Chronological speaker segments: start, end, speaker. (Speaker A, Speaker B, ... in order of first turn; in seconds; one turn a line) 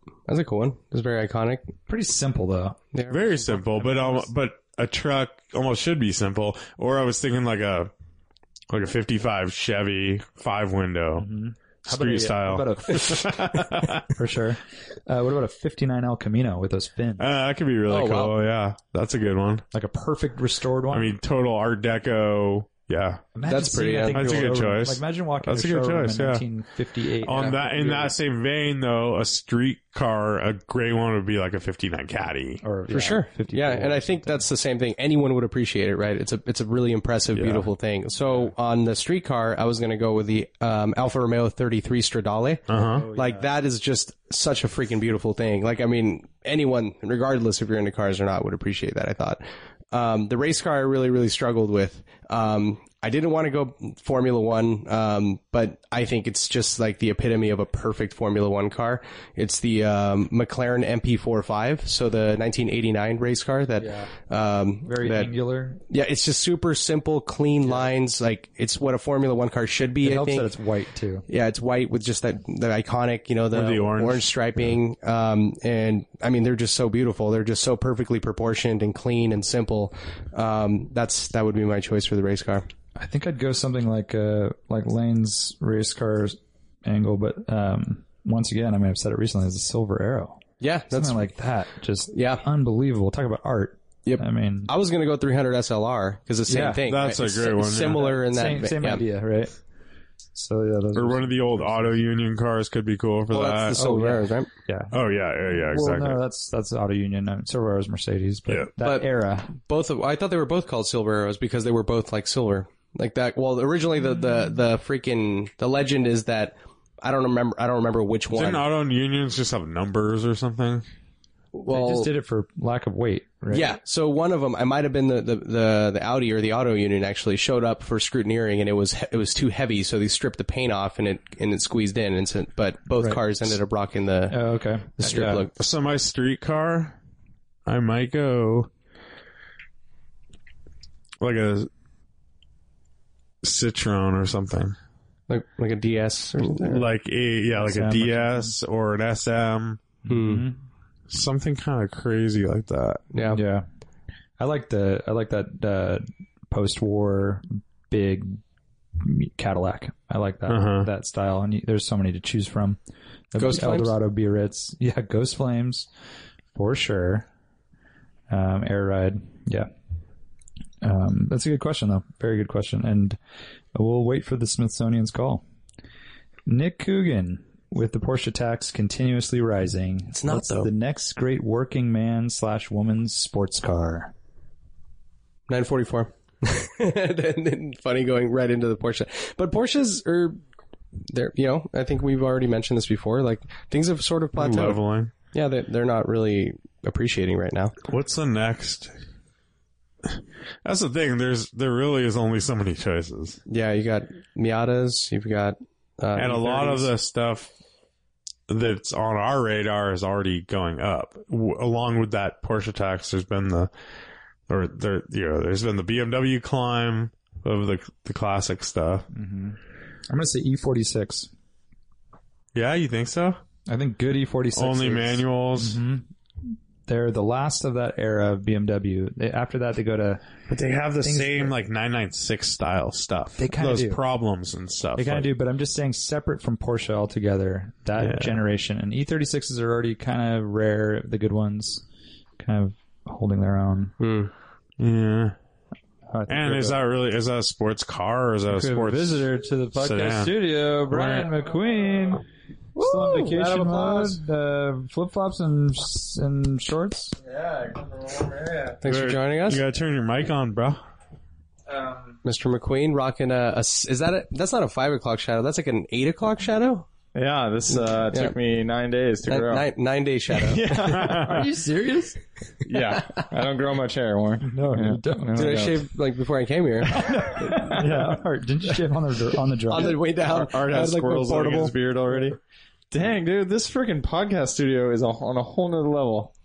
Speaker A: 0.3-1.7
Speaker B: 1.9-2.8
Speaker A: 2.9-4.2
Speaker C: 3.1-7.9
Speaker C: 8.7-11.3
Speaker B: 11.2-17.3
Speaker C: 11.8-14.1
Speaker C: 17.2-19.6
Speaker A: 17.9-18.3
Speaker B: 19.7-21.1
Speaker C: 20.9-23.2
Speaker B: 23.3-28.1
Speaker A: 23.5-24.5
Speaker C: 24.1-26.4
Speaker C: 27.2-32.6
Speaker A: 27.3-28.1
Speaker B: 32.6-34.4
Speaker A: 32.9-65.3
Speaker C: 37.3-37.7
Speaker C: 42.7-43.1
Speaker B: 42.9-43.5
Speaker B: 63.8-64.1
Speaker B: 64.8-65.8
Speaker A: 65.9-70.5
Speaker B: 70.0-71.2
Speaker A: 71.3-82.7
Speaker C: 73.5-74.3
Speaker B: 83.0-94.7
Speaker A: 90.6-91.3
Speaker A: 92.1-92.4
Speaker A: 94.0-99.0
Speaker B: 96.5-96.8
Speaker C: 96.9-98.2
Speaker B: 98.0-99.5
Speaker B: 100.3-102.0
Speaker C: 101.0-103.8
Speaker A: 103.3-104.5
Speaker B: 103.7-105.0
Speaker C: 104.9-106.2
Speaker B: 105.7-109.5
Speaker A: 108.8-118.6
Speaker C: 118.3-120.8
Speaker A: 121.5-122.1
Speaker B: 121.7-123.7
Speaker A: 123.5-134.4
Speaker B: 134.3-135.4
Speaker A: 135.0-135.5
Speaker C: 135.6-136.9
Speaker C: 137.7-138.7
Speaker C: 141.2-141.7
Speaker C: 143.4-144.8
Speaker A: 145.3-146.8
Speaker C: 146.4-149.8
Speaker B: 147.6-148.5
Speaker B: 150.0-150.6
Speaker A: 150.1-150.5
Speaker C: 151.1-153.1
Speaker A: 153.1-153.4
Speaker B: 153.3-153.6
Speaker B: 154.4-158.4
Speaker B: 159.0-162.8
Speaker C: 160.5-160.9
Speaker B: 163.3-165.9
Speaker A: 163.4-163.9
Speaker B: 166.6-167.3
Speaker B: 168.3-169.7
Speaker B: 170.8-173.2
Speaker B: 173.7-175.4
Speaker B: 176.5-184.1
Speaker A: 180.1-180.7
Speaker A: 185.5-190.4
Speaker A: 191.1-197.7
Speaker C: 194.4-195.1
Speaker C: 197.9-198.9
Speaker C: 200.6-203.4
Speaker A: 203.5-206.9
Speaker C: 206.2-207.5
Speaker C: 208.5-213.7
Speaker C: 214.5-219.1
Speaker B: 219.1-219.6
Speaker B: 220.1-221.3
Speaker C: 222.6-223.4
Speaker B: 223.7-230.3
Speaker C: 224.5-225.8
Speaker C: 230.5-235.3
Speaker B: 231.0-231.5
Speaker B: 233.4-234.0
Speaker B: 235.0-241.8
Speaker C: 238.0-238.4
Speaker B: 242.4-243.9
Speaker A: 244.0-244.3
Speaker C: 244.8-245.3
Speaker B: 246.1-246.8
Speaker C: 246.3-250.3
Speaker B: 248.5-257.2
Speaker C: 250.9-251.3
Speaker D: 252.8-254.2
Speaker D: 257.2-258.8
Speaker A: 258.8-259.6
Speaker C: 258.8-260.8
Speaker A: 262.2-266.9
Speaker D: 267.1-269.7
Speaker A: 267.7-268.4
Speaker A: 269.3-270.7
Speaker D: 270.3-271.5
Speaker C: 270.7-271.5
Speaker B: 271.2-272.2
Speaker D: 272.6-275.8
Speaker B: 274.4-275.7
Speaker A: 275.4-277.2
Speaker B: 276.9-280.0
Speaker D: 277.0-278.1
Speaker A: 279.7-281.7
Speaker D: 279.8-282.4
Speaker D: 282.9-286.3